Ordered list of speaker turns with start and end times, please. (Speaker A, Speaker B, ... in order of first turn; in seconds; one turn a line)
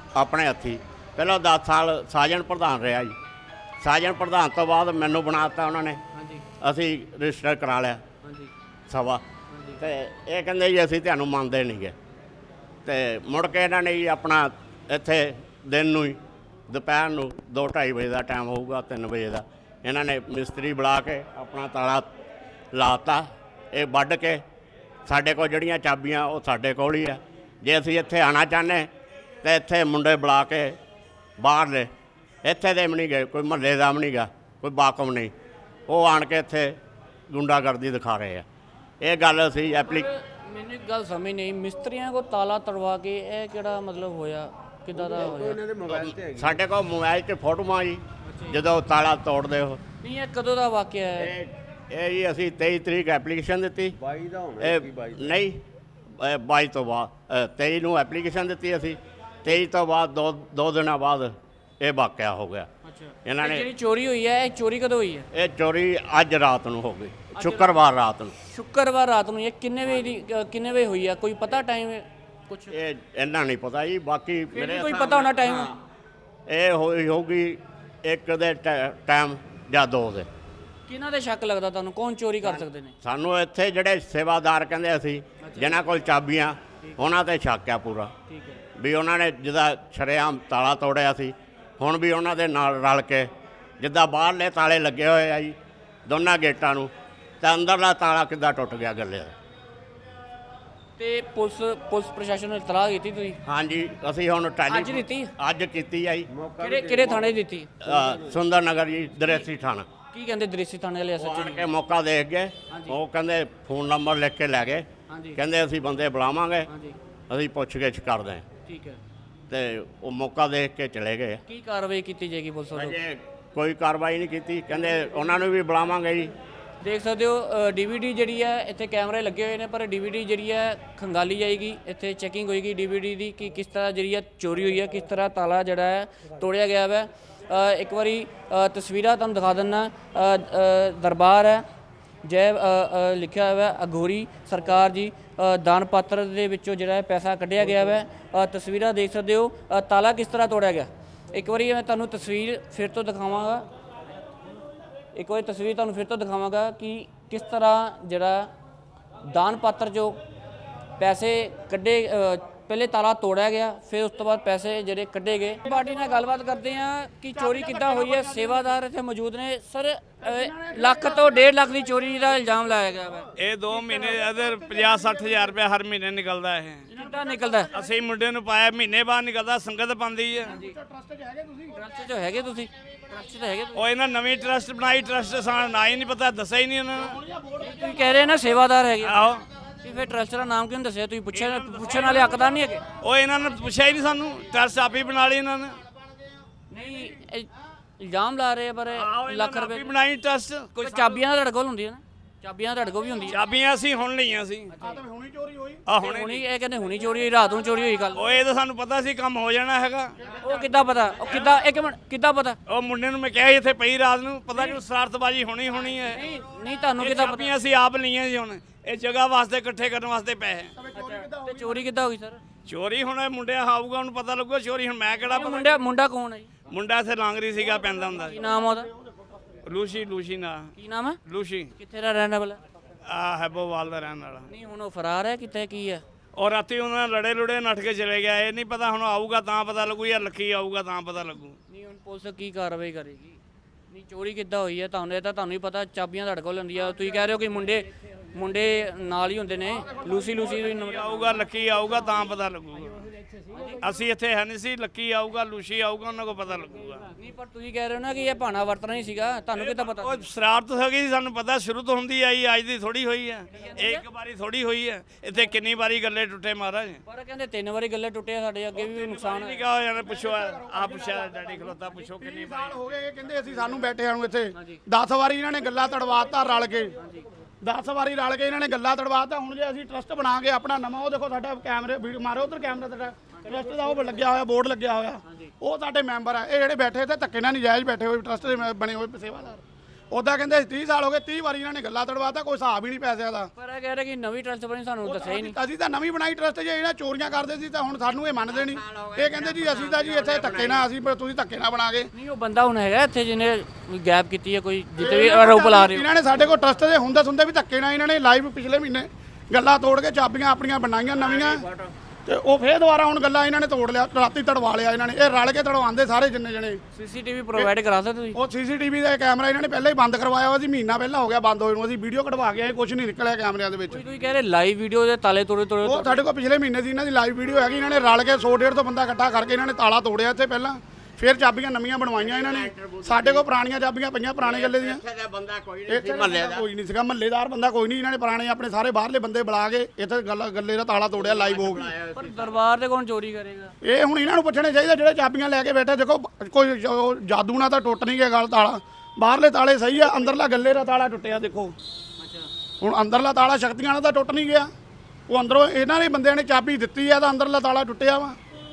Speaker A: 0.1-3.1
Speaker A: 3.8-6.0
Speaker B: 6.1-6.4
Speaker A: 6.6-8.0
Speaker B: 8.2-8.5
Speaker A: 8.9-9.2
Speaker B: 9.5-9.8
Speaker A: 9.8-11.9
Speaker A: 12.8-16.2
Speaker A: 16.7-22.0
Speaker A: 22.7-24.4
Speaker A: 25.1-28.9
Speaker A: 29.4-30.8
Speaker A: 31.4-31.9
Speaker A: 32.4-35.3
Speaker A: 35.9-36.8
Speaker A: 37.3-38.4
Speaker A: 39.0-40.1
Speaker B: 39.8-45.6
Speaker C: 44.9-46.6
Speaker A: 45.9-49.8
Speaker B: 48.3-48.6
Speaker B: 50.0-51.3
Speaker A: 51.2-54.0
Speaker C: 54.0-55.4
Speaker A: 54.6-55.6
Speaker A: 56.2-62.7
Speaker B: 62.9-65.3
Speaker A: 63.2-63.7
Speaker A: 65.3-68.3
Speaker B: 67.3-67.8
Speaker B: 68.4-72.7
Speaker A: 69.8-70.1
Speaker A: 72.7-75.8
Speaker B: 74.5-75.7
Speaker A: 76.5-80.3
Speaker B: 80.9-82.9
Speaker A: 82.4-88.1
Speaker B: 85.4-85.7
Speaker B: 88.3-88.6
Speaker A: 88.8-95.5
Speaker A: 96.1-99.3
Speaker B: 101.0-103.4
Speaker A: 103.4-106.3
Speaker B: 104.7-105.3
Speaker C: 106.3-107.3
Speaker B: 106.6-107.7
Speaker A: 107.8-109.9
Speaker C: 107.9-108.4
Speaker B: 110.1-111.7
Speaker A: 111.2-116.7
Speaker B: 112.7-113.0
Speaker B: 115.1-115.4
Speaker B: 116.7-117.0
Speaker A: 117.3-118.4
Speaker B: 118.6-119.0
Speaker A: 119.5-121.4
Speaker B: 121.5-123.0
Speaker A: 122.7-126.3
Speaker B: 126.8-141.6
Speaker B: 142.2-153.7
Speaker B: 155.1-158.5
Speaker B: 159.2-160.2
Speaker B: 161.0-173.3
Speaker D: 167.3-168.6
Speaker D: 170.2-171.6
Speaker E: 173.3-176.9
Speaker D: 173.7-175.4
Speaker D: 176.9-178.0
Speaker B: 176.9-177.7
Speaker E: 177.7-180.5
Speaker D: 180.4-181.8
Speaker B: 180.5-180.7
Speaker B: 181.7-183.8
Speaker E: 183.7-187.2
Speaker D: 186.9-188.2
Speaker B: 187.6-189.1
Speaker E: 189.0-189.4
Speaker B: 189.8-192.8
Speaker E: 191.3-192.4
Speaker E: 193.0-195.8
Speaker B: 196.7-199.9
Speaker E: 198.9-201.2
Speaker B: 200.8-203.4
Speaker E: 203.3-204.7
Speaker B: 204.7-205.0
Speaker D: 204.8-205.8
Speaker E: 205.8-206.4
Speaker B: 206.0-208.2
Speaker E: 208.1-210.2
Speaker B: 210.4-212.6
Speaker E: 212.7-216.2
Speaker B: 216.1-217.5
Speaker E: 217.0-220.7
Speaker D: 220.8-221.8
Speaker B: 220.9-222.4
Speaker E: 222.7-225.7
Speaker B: 225.3-226.5
Speaker E: 226.7-228.3
Speaker B: 228.2-228.9
Speaker E: 229.6-230.7
Speaker B: 230.8-231.2
Speaker E: 231.2-231.7
Speaker B: 231.8-232.6
Speaker E: 233.0-234.5
Speaker B: 234.5-236.0
Speaker E: 236.3-241.6
Speaker B: 241.7-243.4
Speaker B: 243.9-251.3
Speaker E: 250.4-253.1
Speaker B: 253.5-253.8
Speaker E: 253.8-257.1
Speaker B: 257.2-260.2
Speaker E: 259.6-267.0
Speaker B: 263.5-264.0
Speaker B: 267.0-269.6
Speaker E: 268.7-272.8
Speaker D: 270.4-270.9
Speaker D: 272.1-276.9
Speaker B: 274.5-274.8
Speaker B: 276.9-277.2
Speaker D: 277.6-293.5
Speaker B: 283.3-283.8
Speaker B: 293.6-295.6
Speaker D: 295.0-302.1
Speaker A: 298.5-300.9
Speaker B: 302.1-306.0
Speaker D: 305.0-311.6
Speaker A: 311.1-311.9
Speaker D: 312.3-316.8
Speaker B: 316.9-318.4
Speaker D: 318.4-324.0
Speaker B: 323.9-326.2
Speaker D: 325.8-335.0
Speaker A: 332.1-333.5
Speaker A: 334.4-336.6
Speaker D: 335.9-341.9
Speaker A: 341.1-342.5
Speaker B: 342.1-343.7
Speaker D: 343.8-351.8
Speaker B: 352.2-352.5
Speaker D: 352.8-354.7
Speaker D: 355.3-358.4